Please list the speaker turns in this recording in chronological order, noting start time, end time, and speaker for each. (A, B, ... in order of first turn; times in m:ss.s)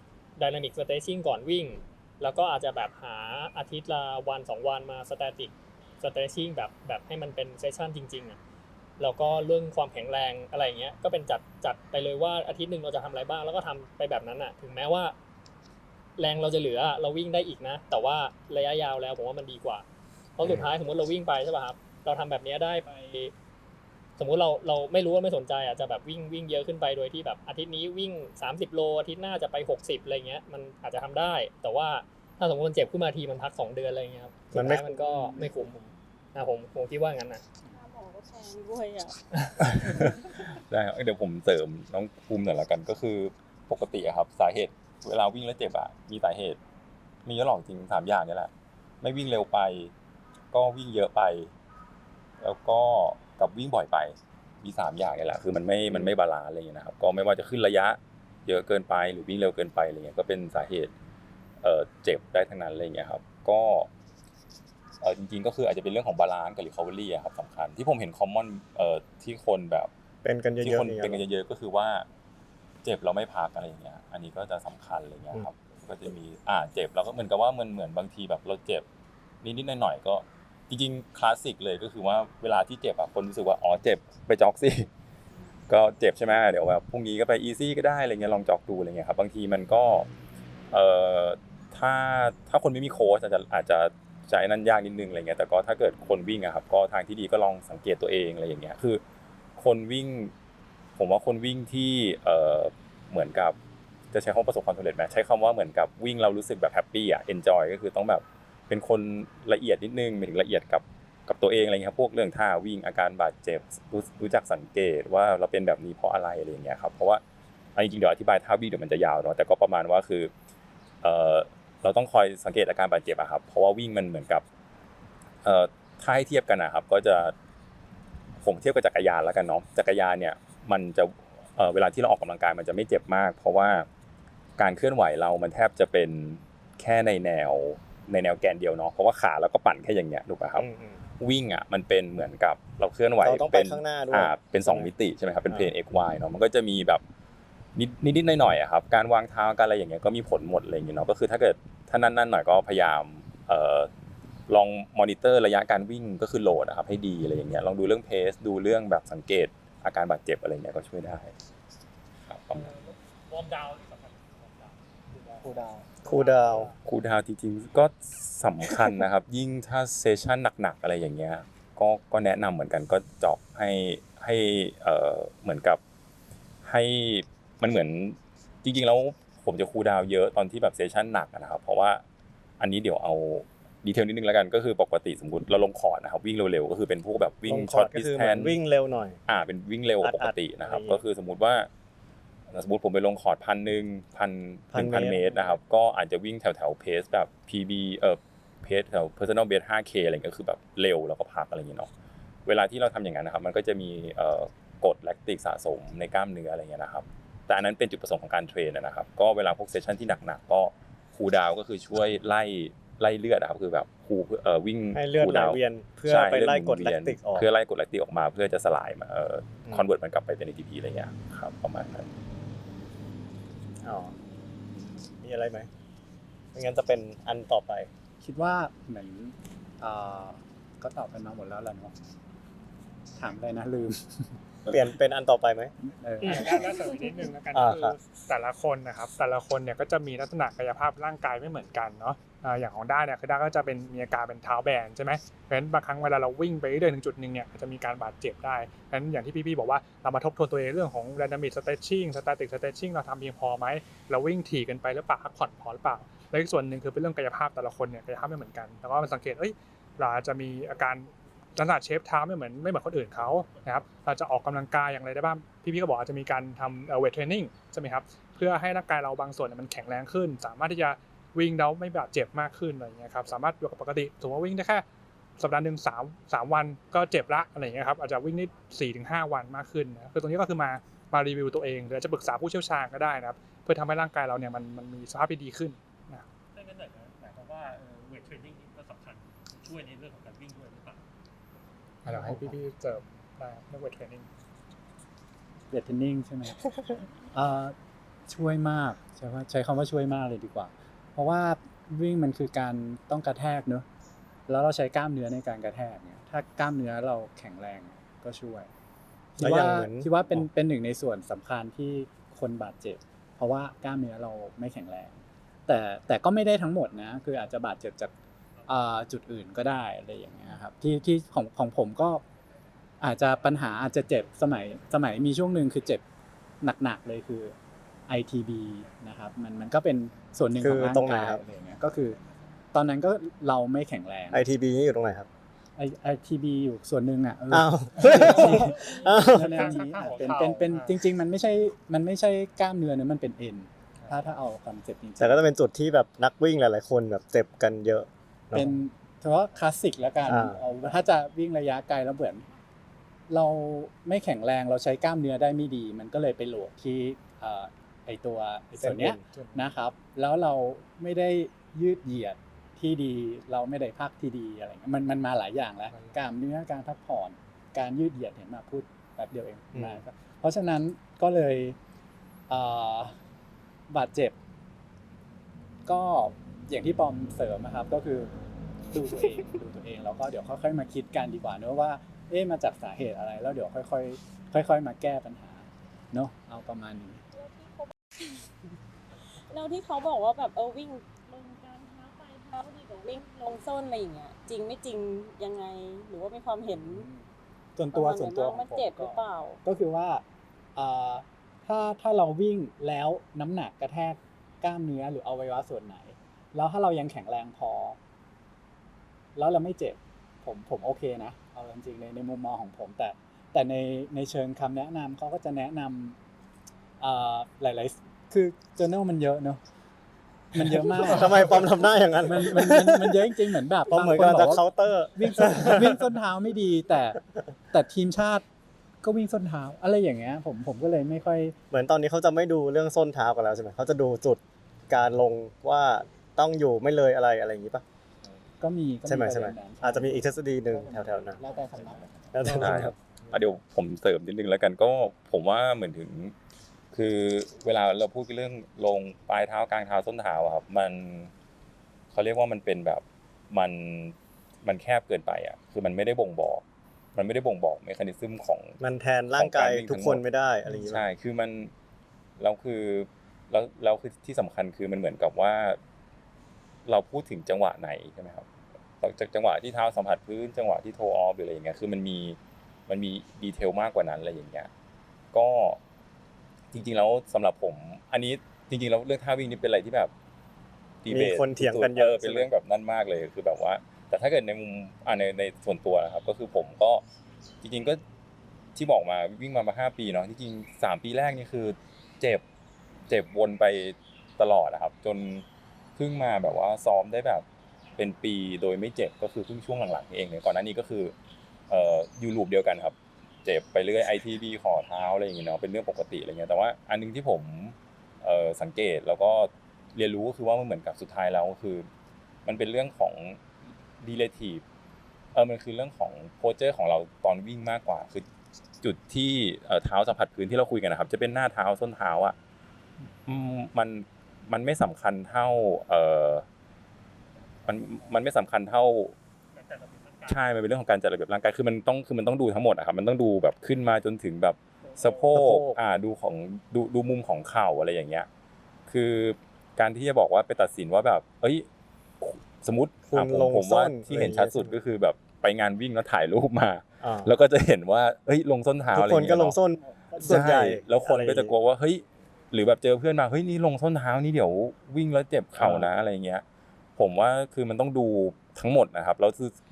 0:00.4-0:08.4 A
0:09.0-0:15.1 A
0:16.2-0:19.8 A
0:20.4-0:23.3 A
0:20.4-0:20.7 B
0:24.2-0:37.4 A
0:34.5-0:35.4 B
0:37.7-0:39.1 C
0:39.6-0:46.6 D
0:47.2-0:48.5 D
0:49.0-0:49.9 D
0:50.5-0:51.5 D
0:52.4-1:00.9 D
1:01.6-1:03.9 D
1:05.0-1:09.9 D
1:10.2-1:11.2 B
1:10.6-1:12.1 D
1:12.8-1:18.8 D
1:19.4-1:24.9 D
1:25.7-1:30.1 D
1:30.7-1:39.0 D
1:39.6-1:40.3 D
1:41.0-1:43.6 D
1:44.1-1:57.2 D
1:57.8-2:00.3 D
2:01.0-2:04.4 D
2:05.4-2:07.3 D
2:08.4-2:13.9 D
2:14.6-2:20.7 D
2:20.6-2:21.0 B
2:21.2-2:27.0 D
2:23.2-2:24.9 B
2:25.5-2:25.7 B
2:27.7-2:33.9 D
2:34.5-2:41.3 D
2:42.2-2:42.8 D
2:42.8-2:44.7 E
2:45.3-2:45.8 F
2:46.0-2:46.7 B
2:46.8-2:55.8 D
2:56.6-3:02.0 D
3:02.6-3:08.6 D
3:07.5-3:09.2 B
3:09.3-3:11.7 D
3:10.0-3:11.0 B
3:12.5-3:21.9 D
3:14.7-3:15.6 B
3:22.4-3:42.1 D
3:34.9-3:37.5 B
3:43.8-3:44.1 B
3:45.2-3:45.7 B
3:46.5-3:47.9 B
3:48.2-3:51.9 F
3:53.2-3:54.3 F
3:54.7-3:55.7 B
3:56.0-3:56.6 F
3:56.2-4:34.8 G
3:57.5-3:58.0 B
4:35.4-4:46.2 G
4:46.5-4:51.0 E
4:52.0-4:54.3 G
4:52.1-4:52.5 F
4:55.7-4:57.8 F
4:58.3-5:03.8 F
5:04.5-5:08.7 F
5:09.3-5:18.1 F
5:09.4-5:10.5 B
5:18.6-5:22.2 F
5:23.0-5:26.0 F
5:26.6-5:27.5 F
5:28.1-5:32.2 F
5:30.6-5:31.4 B
5:32.7-5:34.4 F
5:34.3-5:35.3 B
5:35.8-5:45.4 F
5:37.5-5:39.7 B
5:38.1-5:41.0 G
5:45.2-5:48.8 B
5:48.5-5:52.5 F
5:50.2-5:50.6 B
5:53.3-6:11.8 F
5:58.8-5:59.3 B
5:59.3-5:59.7 G
6:09.7-6:10.0 B
6:12.5-6:13.1 F
6:13.9-6:14.3 F
6:15.8-6:18.3 F
6:18.9-6:27.2 F
6:27.3-6:28.2 C
6:29.5-6:37.0 C
6:36.7-6:40.2 F
6:37.9-6:39.6 C
6:40.7-6:48.0 F
6:49.4-6:56.2 F
6:57.0-6:59.6 F
7:00.5-7:07.2 F
7:00.6-7:03.3 B
7:03.9-7:06.0 B
7:07.7-7:08.4 F
7:09.0-7:11.6 F
7:11.7-7:17.8 B
7:18.6-7:22.9 F
7:19.0-7:21.4 B
7:21.8-7:26.3 D
7:22.3-7:23.2 B
7:26.9-7:31.3 D
7:32.1-7:36.6 D
7:37.2-7:38.8 D
7:38.8-7:41.0 B
7:39.3-7:41.7 D
7:42.4-7:45.8 D
7:46.8-7:48.5 D
7:49.0-7:54.7 D
7:55.3-7:55.8 D
7:56.7-8:00.1 D
8:01.0-8:07.0 D
8:01.1-8:02.5 B
8:07.6-8:08.0 D
8:08.7-8:12.4 D
8:13.1-8:15.4 D
8:16.0-8:17.4 D
8:18.0-8:21.1 D
8:21.7-8:31.9 D
8:32.4-8:33.4 D
8:34.0-8:34.6 D
8:35.3-8:38.2 D
8:38.8-8:42.4 D
8:43.2-8:46.4 D
8:47.6-8:49.2 D
8:49.6-8:50.3 E
8:50.2-8:58.3 D
8:55.3-8:55.8 B
8:58.9-9:01.6 D
9:02.2-9:09.6 D
9:03.1-9:04.8 B
9:07.0-9:07.3 B
9:08.9-9:11.5 B
9:10.2-9:16.4 D
9:15.6-9:15.9 B
9:17.0-9:19.6 D